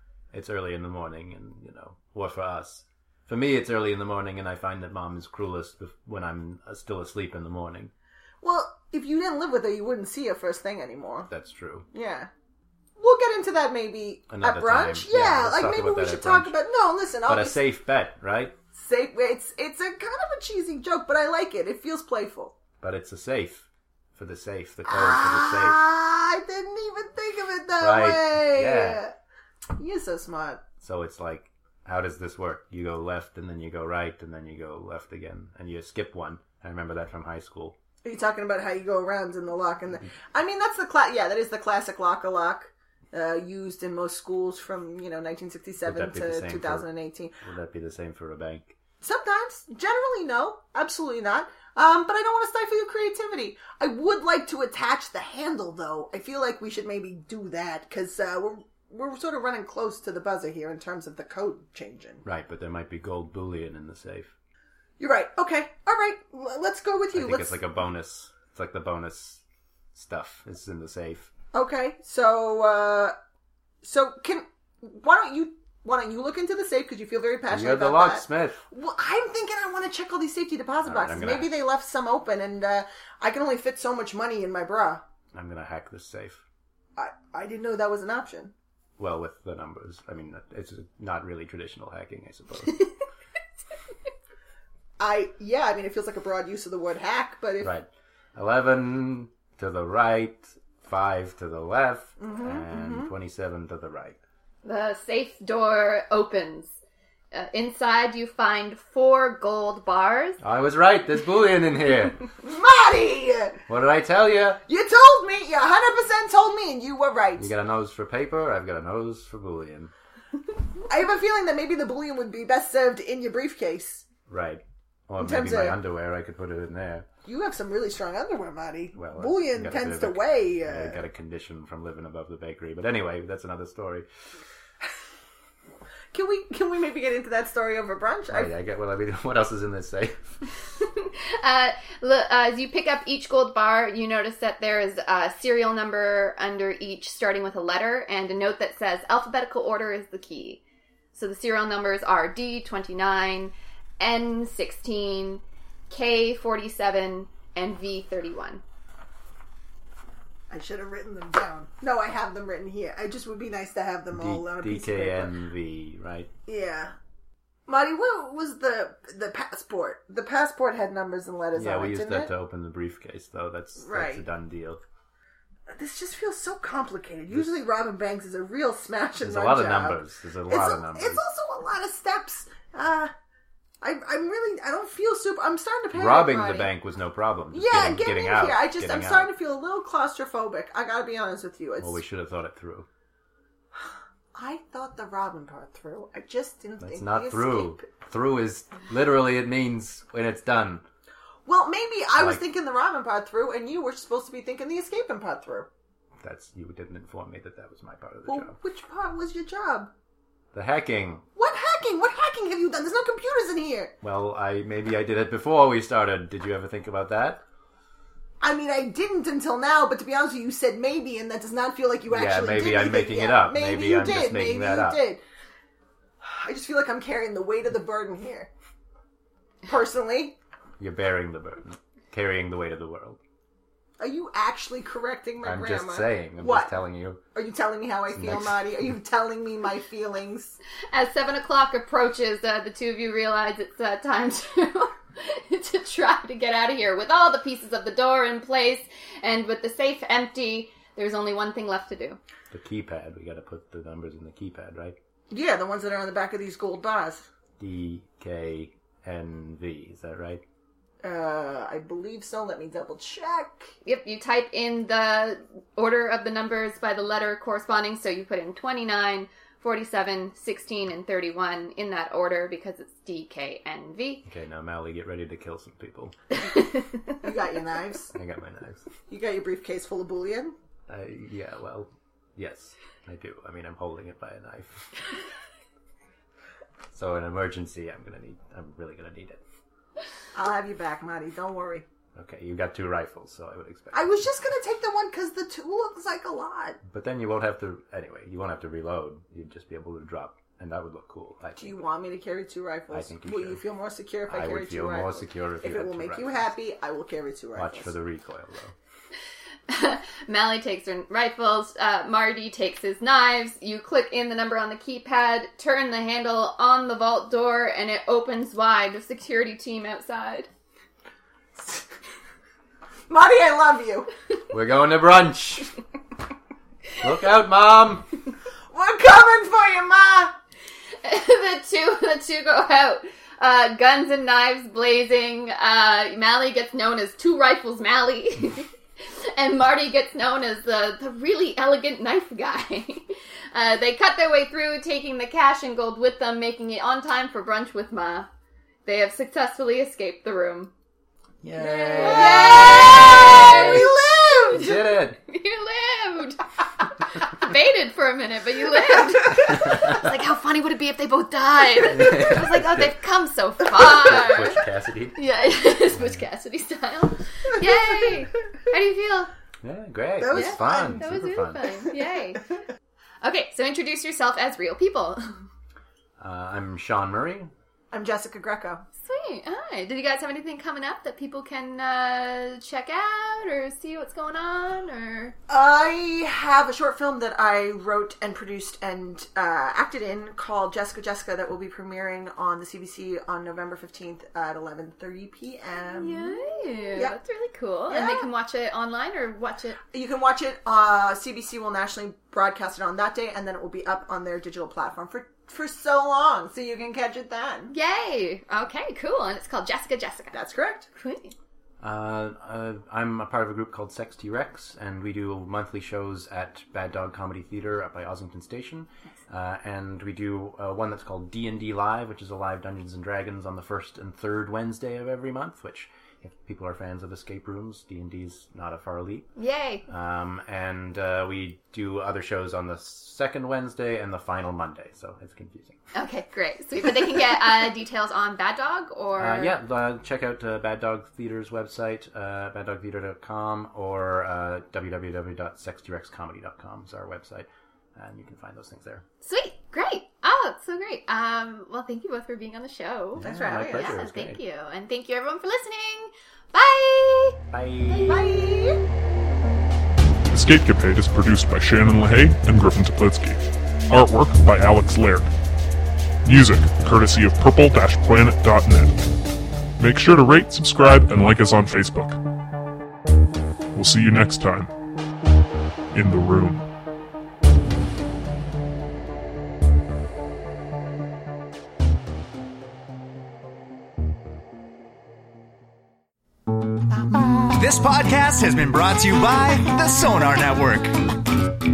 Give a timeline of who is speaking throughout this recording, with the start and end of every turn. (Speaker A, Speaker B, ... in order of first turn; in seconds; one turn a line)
Speaker A: 0.3-7.9
Speaker B: 8.4-11.3
Speaker A: 11.3-11.9
Speaker B: 11.9-12.3
Speaker B: 13.0-17.6
Speaker A: 14.3-16.5
Speaker A: 17.3-18.5
Speaker B: 18.7-22.5
Speaker A: 22.8-25.8
Speaker B: 24.9-29.1
Speaker A: 27.8-29.0
Speaker B: 29.8-30.6
Speaker A: 30.8-37.8
Speaker B: 38.0-47.4
Speaker A: 45.8-46.9
Speaker A: 47.4-48.8
Speaker B: 49.0-62.2
Speaker A: 62.2-64.3
Speaker B: 65.0-67.6
Speaker A: 67.1-69.4
Speaker A: 69.9-71.3
Speaker B: 71.5-73.1
Speaker B: 73.8-85.0
Speaker A: 77.5-78.6
Speaker A: 80.8-81.5
Speaker A: 85.3-86.4
Speaker B: 87.0-88.5
Speaker A: 89.0-92.9
Speaker B: 95.0-97.7
Speaker A: 97.6-104.2
Speaker B: 102.2-103.1
Speaker C: 104.6-106.7
Speaker C: 107.3-110.4
Speaker A: 110.4-112.2
Speaker B: 112.4-113.6
Speaker A: 113.7-114.6
Speaker B: 114.7-117.5
Speaker A: 117.4-119.9
Speaker B: 120.9-124.0
Speaker A: 124.3-127.1
Speaker B: 125.2-125.8
Speaker B: 127.2-131.0
Speaker A: 128.9-134.1
Speaker B: 136.1-138.5
Speaker A: 138.3-140.4
Speaker C: 140.8-150.6
Speaker C: 151.1-158.6
Speaker B: 160.5-165.3
Speaker A: 164.1-166.3
Speaker B: 166.4-166.9
Speaker B: 167.7-172.3
Speaker A: 171.5-174.8
Speaker B: 173.8-174.2
Speaker B: 175.7-183.1
Speaker A: 179.2-181.2
Speaker B: 183.8-186.7
Speaker A: 185.9-189.3
Speaker B: 187.5-192.0
Speaker A: 191.8-192.9
Speaker B: 193.8-197.8
Speaker A: 196.8-200.8
Speaker B: 201.4-205.7
Speaker A: 202.2-202.4
Speaker A: 206.2-208.5
Speaker B: 208.2-209.9
Speaker A: 210.5-211.2
Speaker B: 211.3-213.9
Speaker A: 214.0-217.4
Speaker B: 218.4-225.2
Speaker A: 222.1-225.0
Speaker B: 226.2-228.5
Speaker B: 229.6-230.4
Speaker A: 230.8-233.2
Speaker B: 234.0-236.7
Speaker A: 235.4-237.2
Speaker B: 237.3-240.6
Speaker A: 238.1-238.6
Speaker C: 240.9-252.2
Speaker A: 252.5-254.9
Speaker B: 255.3-257.2
Speaker A: 257.6-260.4
Speaker B: 261.0-263.7
Speaker C: 263.8-274.2
Speaker A: 274.2-276.1
Speaker B: 277.2-278.1
Speaker A: 278.1-278.8
Speaker B: 279.1-280.5
Speaker A: 280.9-284.9
Speaker A: 286.9-289.4
Speaker B: 290.3-291.9
Speaker A: 292.1-294.1
Speaker B: 293.9-296.8
Speaker A: 296.9-301.8
Speaker B: 301.6-307.9
Speaker A: 302.9-303.6
Speaker A: 304.3-306.5
Speaker A: 307.6-308.7
Speaker C: 309.7-320.5
Speaker B: 323.1-324.1
Speaker A: 324.5-325.7
Speaker A: 327.0-328.1
Speaker B: 328.7-330.3
Speaker C: 331.0-348.3
Speaker C: 348.9-350.7
Speaker A: 351.4-353.8
Speaker C: 351.6-353.9
Speaker B: 352.0-354.7
Speaker C: 354.5-356.4
Speaker A: 354.5-355.2
Speaker C: 357.1-364.6
Speaker A: 359.5-359.9
Speaker A: 361.9-362.9
Speaker A: 363.7-365.2
Speaker C: 365.2-369.3
Speaker A: 369.6-371.7
Speaker B: 370.2-371.1
Speaker C: 370.3-372.6
Speaker C: 373.2-375.4
Speaker A: 376.2-377.5
Speaker B: 377.9-378.8
Speaker C: 379.0-385.4
Speaker B: 385.5-397.2
Speaker C: 395.9-399.8
Speaker B: 397.9-398.3
Speaker B: 399.9-407.7
Speaker C: 407.7-410.4
Speaker B: 410.3-410.9
Speaker C: 410.9-411.3
Speaker A: 411.8-429.3
Speaker C: 429.4-429.9
Speaker A: 429.9-435.8
Speaker C: 435.9-439.5
Speaker A: 439.2-449.0
Speaker C: 449.2-458.3
Speaker A: 453.1-454.4
Speaker B: 453.2-453.9
Speaker A: 457.5-458.3
Speaker B: 458.0-458.8
Speaker D: 460.3-465.3
Speaker D: 466.2-469.0
Speaker D: 469.8-472.2
Speaker D: 473.7-474.7
Speaker D: 475.9-476.6
Speaker E: 487.5-491.0